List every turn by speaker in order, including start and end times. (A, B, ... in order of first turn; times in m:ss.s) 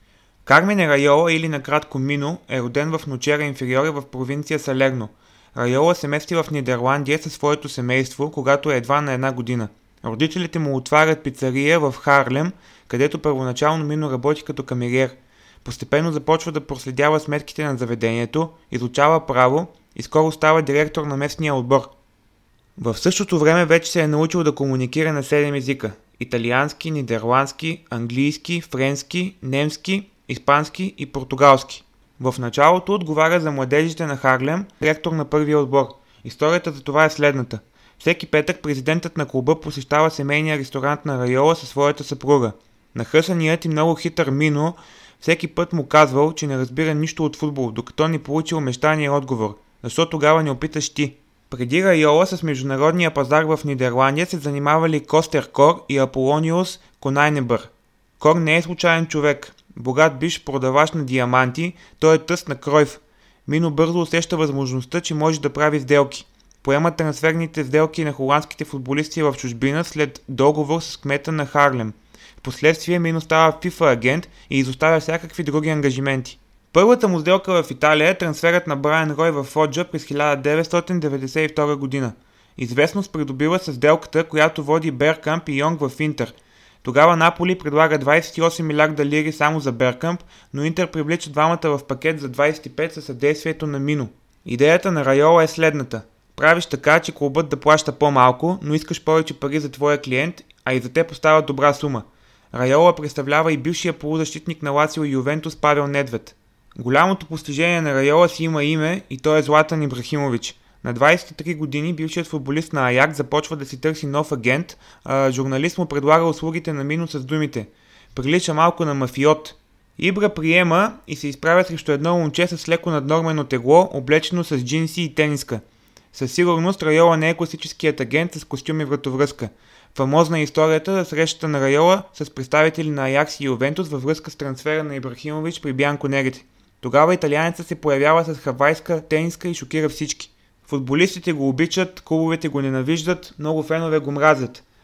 0:00.4-0:21.9 A
0:22.8-2:24.6 A